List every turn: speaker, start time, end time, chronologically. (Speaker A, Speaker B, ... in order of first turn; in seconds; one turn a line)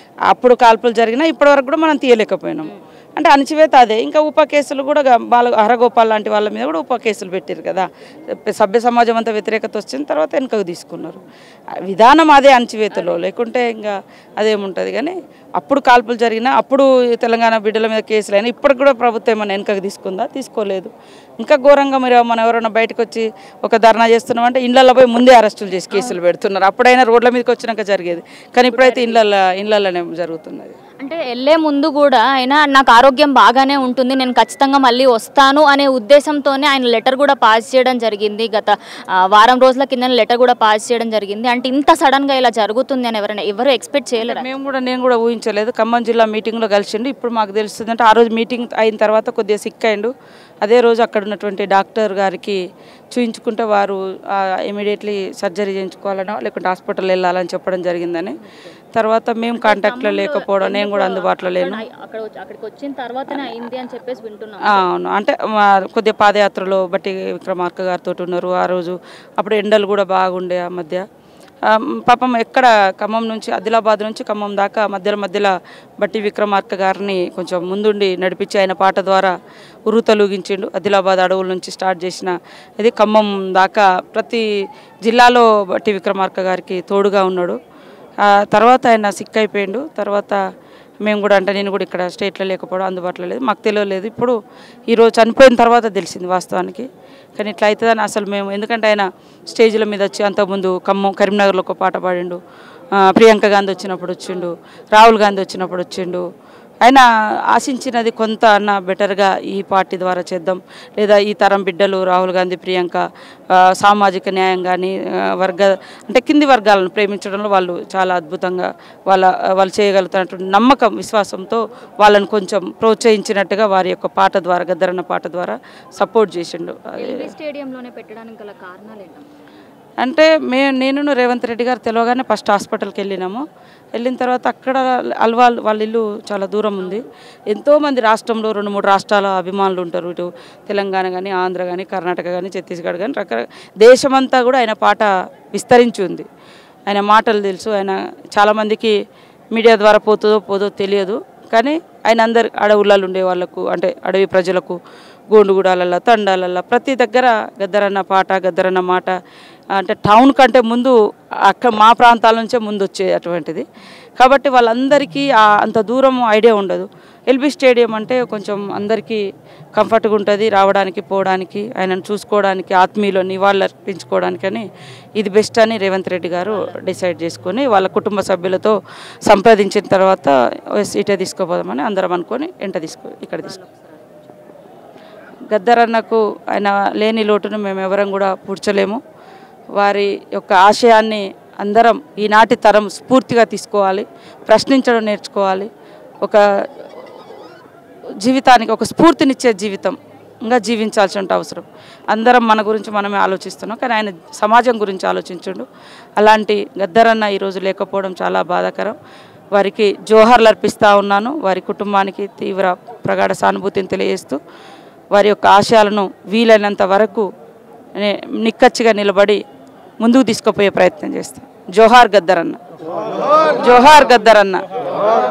Speaker A: 0.3-11.2
Speaker A: 11.8-30.7
Speaker B: 12.9-13.2
Speaker B: 25.9-26.2
Speaker B: 28.7-29.2
Speaker B: 31.0-38.7
Speaker B: 39.3-44.5
Speaker A: 44.2-52.6
Speaker A: 53.1-58.4
Speaker A: 58.9-61.8
Speaker B: 59.6-64.8
Speaker A: 63.3-63.6
Speaker A: 64.7-71.0
Speaker A: 71.7-79.3
Speaker A: 79.9-84.5
Speaker A: 85.0-87.6
Speaker A: 88.2-90.4
Speaker A: 91.0-94.3
Speaker A: 94.9-102.4
Speaker A: 103.0-106.2
Speaker A: 106.8-127.3
Speaker B: 127.0-129.3
Speaker A: 130.0-133.4
Speaker A: 133.9-146.3
Speaker A: 146.9-148.9
Speaker A: 149.5-154.8
Speaker A: 155.3-159.1
Speaker A: 159.8-160.9
Speaker A: 161.5-163.6
Speaker A: 164.2-169.2
Speaker A: 169.8-174.7
Speaker A: 175.2-183.6
Speaker B: 183.4-184.3
Speaker A: 185.4-189.0
Speaker A: 189.8-195.7
Speaker A: 198.2-205.7
Speaker A: 206.2-209.0
Speaker A: 209.5-214.4
Speaker A: 215.1-217.3
Speaker A: 217.9-219.4
Speaker A: 220.0-222.6
Speaker A: 223.6-224.7